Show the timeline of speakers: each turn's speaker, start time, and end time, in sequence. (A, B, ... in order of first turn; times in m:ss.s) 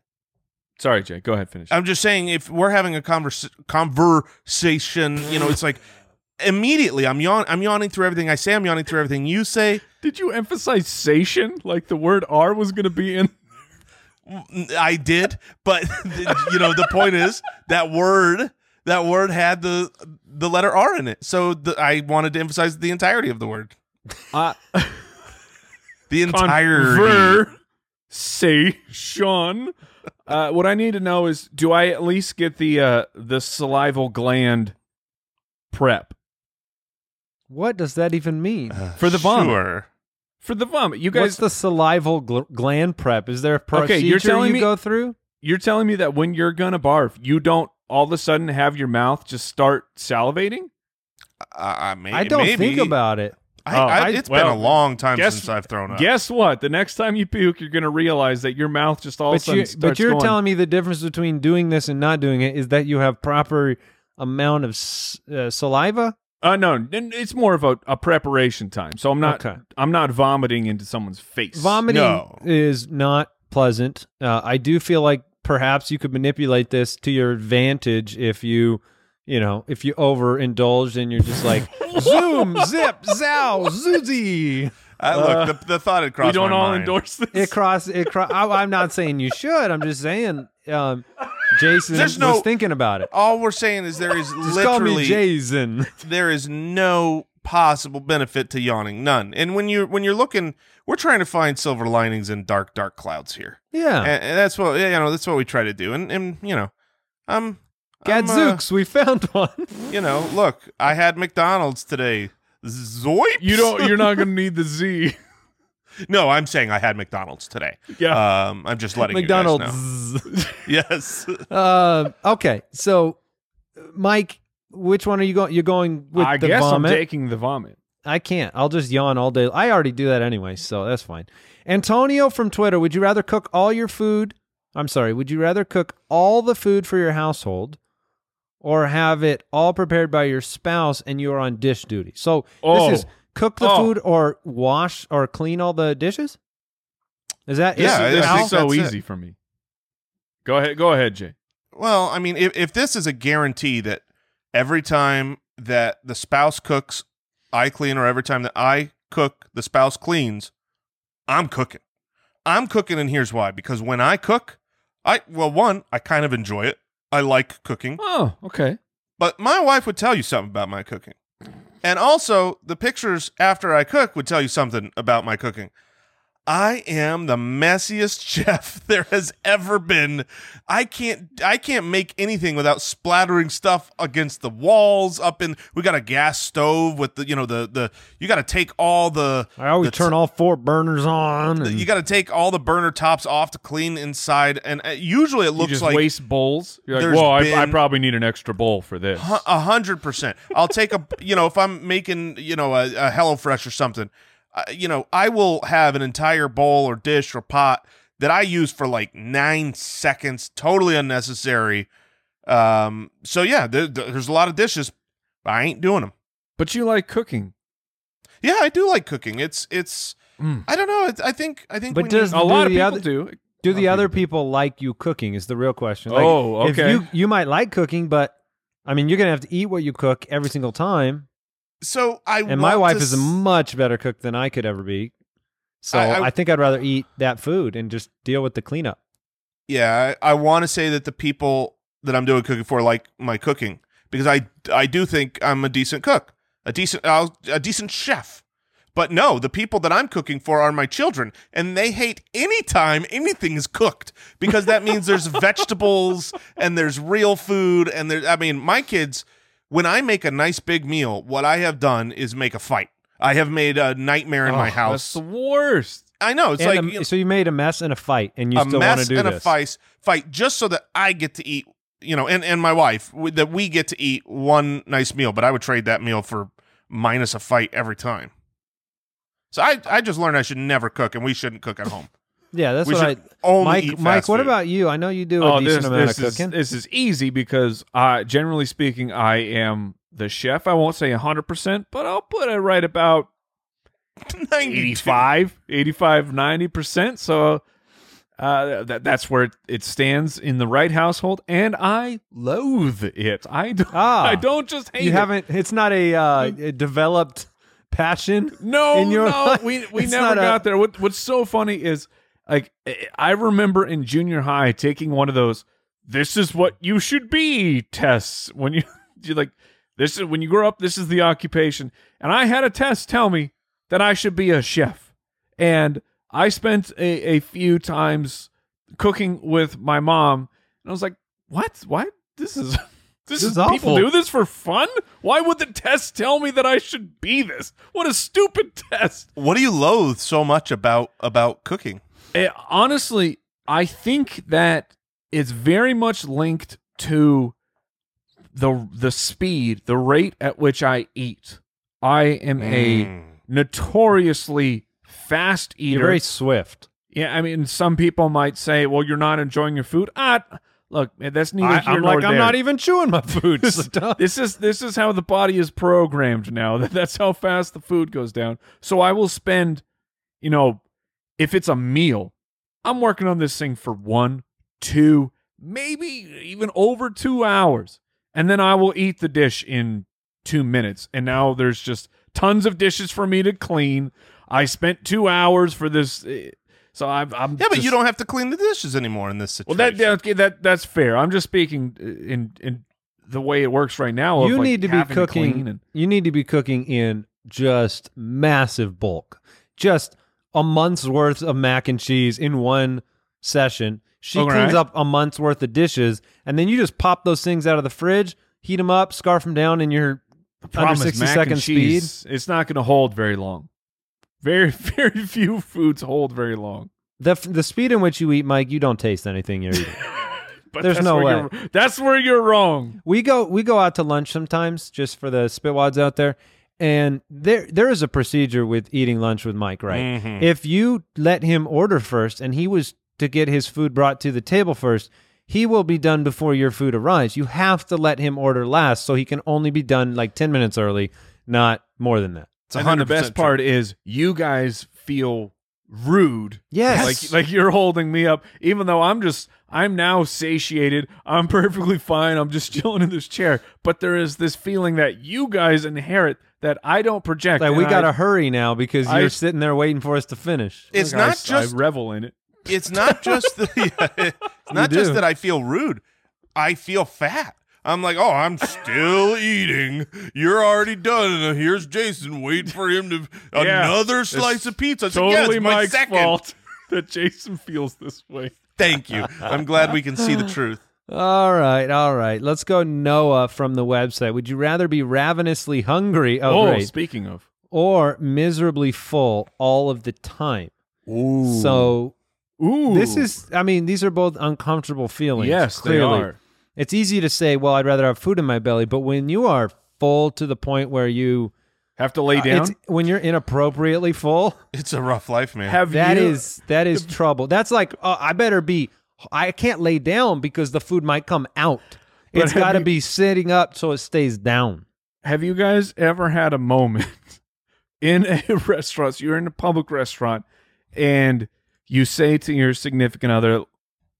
0:00.8-0:01.7 A
0:01.7-0:05.8 B
0:06.4-0:09.8 B
0:10.0-0:13.3 A
0:14.3-0:23.7 B
0:24.3-0:25.1 A
0:26.1-0:27.4 B
0:26.3-0:27.5 A
0:28.1-0:29.7 A
0:30.3-0:34.7 A
0:35.7-0:36.1 A
0:37.5-0:38.8 C
0:38.7-0:39.9 B
0:39.0-0:39.6 A
0:40.4-0:41.4 A
0:41.1-0:45.2 C
0:43.7-0:44.7 A
0:45.4-0:50.7 A
0:51.4-0:52.9 B
0:52.1-0:53.4 C
0:53.6-0:56.1 B
0:53.7-1:00.4 A
0:53.9-0:54.2 C
0:59.3-1:06.2 C
1:06.4-1:11.8 A
1:09.2-1:09.6 C
1:11.5-1:24.7 C
1:11.9-1:12.4 B
1:21.8-1:22.9 A
1:25.0-1:27.0 B
1:25.1-1:25.6 A
1:26.2-1:27.6 A
1:27.3-1:33.1 C
1:31.9-1:32.5 B
1:33.1-1:35.2 B
1:34.4-1:35.9 C
1:36.0-1:46.7 B
1:43.7-1:44.1 C
1:47.3-1:48.6 B
1:48.0-1:49.9 C
1:49.9-1:54.0 B
1:53.4-1:55.2 A
1:56.0-1:59.8 B
1:57.9-1:58.2 A
1:59.0-2:00.3 C
2:00.6-2:01.4 B
2:01.5-2:03.2 C
2:03.8-2:07.0 C
2:06.2-2:07.8 A
2:08.0-2:17.8 C
2:18.6-2:26.4 C
2:22.6-2:23.9 A
2:27.5-2:28.5 C
2:27.8-2:28.9 B
2:27.8-2:29.3 A
2:30.4-2:31.3 A
2:31.7-2:40.5 B
2:41.3-2:41.8 B
2:42.4-2:48.0 B
2:48.0-2:48.8 A
2:49.2-2:51.1 B
2:51.8-2:55.7 B
2:56.5-3:10.1 B
3:09.6-3:11.9 C
3:11.6-3:16.0 B
3:15.6-3:19.4 A
3:16.9-3:17.8 B
3:19.2-3:31.9 B
3:32.4-3:36.1 B
3:36.6-3:37.5 A
3:38.4-3:42.5 B
3:40.4-3:40.6 A
3:41.9-3:43.1 C
3:42.3-3:44.2 A
3:43.6-3:48.3 C
3:46.1-3:47.0 A
3:48.8-3:51.3 C
3:51.8-3:53.4 B
3:52.4-3:55.1 C
3:55.8-3:59.0 C
3:55.9-3:56.3 B
3:59.7-4:08.4 B
4:08.9-4:25.2 B
4:24.4-4:26.0 A
4:26.2-4:27.0 B
4:26.6-4:29.5 C
4:28.5-4:38.3 B
4:39.5-4:42.1 B
4:42.5-4:46.5 C
4:42.8-4:44.5 B
4:45.4-4:53.3 A
4:54.2-4:55.2 B
4:54.6-4:57.6 A
4:58.4-5:05.3 A
5:03.9-5:04.4 C
5:05.0-5:10.6 C
5:08.6-5:25.0 A
5:25.6-5:39.3 A
5:33.4-5:34.1 C
5:39.4-5:42.0 B
5:42.3-5:47.5 A
5:48.5-5:56.2 A
5:52.6-5:53.3 B
5:55.9-5:56.9 C
5:57.1-6:02.6 A
6:01.6-6:04.2 C
6:03.5-6:09.8 A
6:10.4-6:10.8 A
6:11.4-6:12.3 A
6:12.8-6:27.9 A
6:27.6-6:30.1 B
6:29.7-6:35.8 A
6:34.4-6:50.2 C
6:44.3-6:44.8 A
6:50.6-6:53.7 A
6:50.7-6:52.1 C
6:54.4-6:56.9 A
6:57.2-7:00.0 C
7:00.7-7:03.0 A
7:00.8-7:01.5 C
7:03.0-7:22.5 C
7:09.9-7:10.5 B
7:22.7-7:23.6 B
7:22.7-7:38.1 A
7:26.7-7:27.3 C
7:37.6-7:40.9 C
7:39.0-7:39.4 A
7:40.9-7:41.8 B
7:40.9-7:42.4 A
7:42.7-7:46.0 B
7:43.0-7:43.5 A
7:44.7-7:45.2 C
7:46.6-7:56.4 B
7:53.5-7:58.6 A
7:58.8-8:00.8 B
8:01.1-8:06.9 C
8:06.4-8:07.4 A
8:07.7-8:10.7 C
8:11.1-8:11.9 A
8:11.4-8:12.1 C
8:12.6-8:13.3 A
8:12.9-8:21.5 C
8:15.4-8:16.4 A
8:22.0-8:22.7 A
8:22.3-8:24.6 C
8:24.7-8:25.8 B
8:25.6-8:27.1 A
8:25.9-8:34.8 C
8:32.3-8:32.9 A
8:35.2-8:37.4 A
8:38.0-8:43.6 A